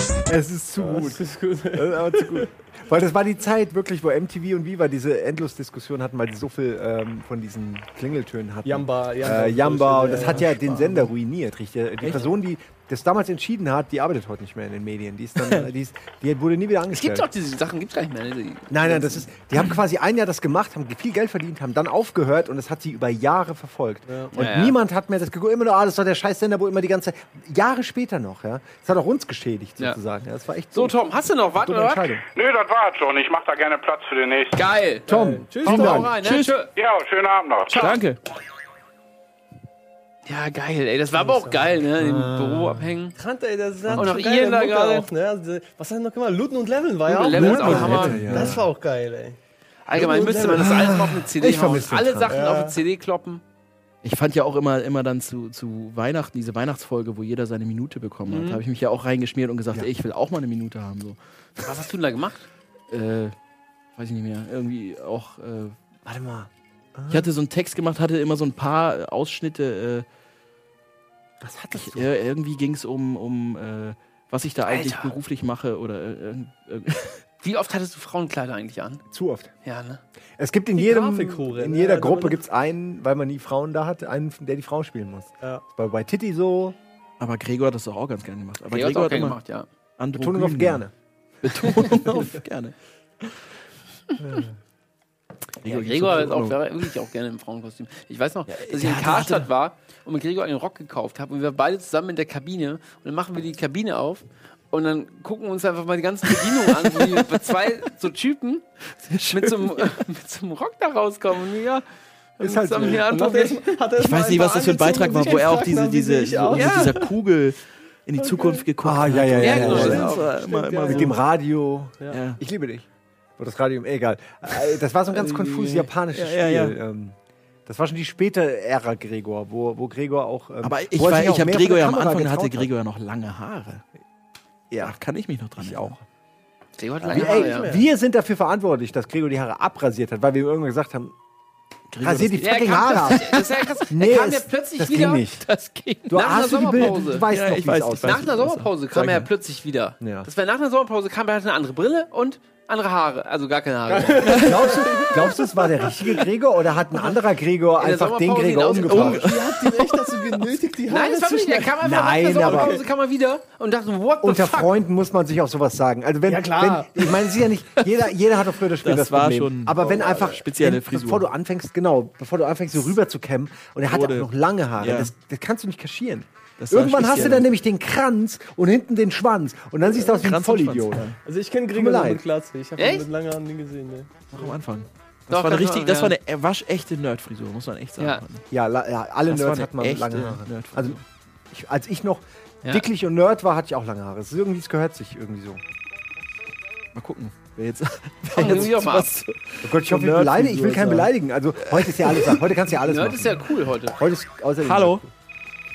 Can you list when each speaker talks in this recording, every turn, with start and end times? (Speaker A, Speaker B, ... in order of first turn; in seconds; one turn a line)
Speaker A: 0.3-1.2
Speaker B: 0.8-2.5
Speaker A: 1.7-17.3
Speaker B: 8.6-11.1
Speaker C: 16.9-19.3
Speaker A: 18.7-31.0
Speaker B: 24.1-24.3
Speaker C: 24.4-24.8
Speaker C: 30.7-32.2
Speaker A: 31.6-32.2
Speaker D: 32.3-34.6
Speaker C: 34.5-35.1
Speaker B: 35.1-36.1
Speaker A: 35.1-36.1
Speaker C: 35.6-36.7
Speaker E: 36.2-36.6
Speaker D: 36.8-37.8
Speaker C: 37.7-38.0
Speaker E: 37.7-38.2
Speaker C: 40.3-43.2
Speaker B: 41.1-41.8
Speaker A: 42.0-42.9
Speaker B: 43.1-49.4
Speaker C: 43.9-45.1
Speaker C: 47.1-48.5
Speaker A: 47.3-48.7
Speaker E: 47.8-48.5
Speaker C: 49.9-53.4
Speaker B: 49.9-50.7
Speaker A: 50.5-52.4
Speaker B: 52.3-52.8
Speaker E: 54.0-61.6
Speaker C: 58.3-58.6
Speaker C: 61.6-62.5
Speaker E: 62.9-63.4
Speaker E: 64.0-65.8
Speaker A: 66.0-67.3
Speaker E: 67.1-70.1
Speaker A: 71.4-72.1
Speaker E: 71.7-77.2
Speaker C: 74.7-75.2
Speaker C: 77.4-79.0
Speaker A: 79.1-79.5
Speaker C: 79.6-80.0
Speaker A: 80.4-86.8
Speaker B: 80.8-82.4
Speaker E: 87.2-89.4
Speaker C: 88.7-89.7
Speaker E: 90.0-90.8
Speaker A: 90.2-90.9
Speaker E: 91.4-93.3
Speaker E: 95.6-96.6
Speaker C: 95.7-108.7
Speaker E: 98.5-99.5
Speaker E: 109.1-110.0
Speaker C: 109.3-111.8
Speaker C: 112.4-113.7
Speaker A: 112.5-113.0
Speaker B: 112.7-117.1
Speaker E: 114.0-121.1
Speaker C: 116.5-117.0
Speaker B: 118.2-118.7
Speaker A: 118.8-120.1
Speaker C: 119.4-120.3
Speaker B: 119.5-121.1
Speaker A: 120.9-122.9
Speaker E: 122.1-122.4
Speaker A: 123.4-132.7
Speaker E: 126.1-126.8
Speaker E: 130.6-133.8
Speaker A: 134.7-135.0
Speaker E: 134.8-135.9
Speaker A: 135.6-136.0
Speaker C: 136.8-137.7
Speaker A: 137.1-141.2
Speaker B: 137.1-137.9
Speaker E: 141.9-142.5
Speaker A: 142.0-145.5
Speaker C: 142.4-147.3
Speaker A: 146.1-148.3
Speaker E: 147.3-149.3
Speaker C: 148.0-154.8
Speaker A: 150.0-150.3
Speaker B: 153.9-156.2
Speaker A: 154.3-159.3
Speaker C: 157.8-159.2
Speaker E: 158.8-159.9
Speaker B: 159.1-161.8
Speaker C: 160.9-164.7
Speaker A: 161.8-162.8
Speaker B: 162.3-162.8
Speaker A: 164.2-181.2
Speaker B: 166.3-167.1
Speaker E: 168.8-171.3
Speaker B: 169.8-170.3
Speaker E: 173.9-175.1
Speaker E: 176.6-177.5
Speaker E: 180.1-181.2
Speaker B: 181.2-184.5
Speaker A: 181.7-182.2
Speaker C: 182.8-183.1
Speaker E: 184.3-188.4
Speaker C: 185.3-186.1
Speaker A: 188.5-191.0
Speaker E: 189.3-191.0
Speaker A: 191.5-195.6
Speaker E: 196.9-201.1
Speaker C: 198.3-199.1
Speaker A: 199.6-205.1
Speaker E: 201.7-202.4
Speaker C: 202.8-204.0
Speaker E: 204.6-205.0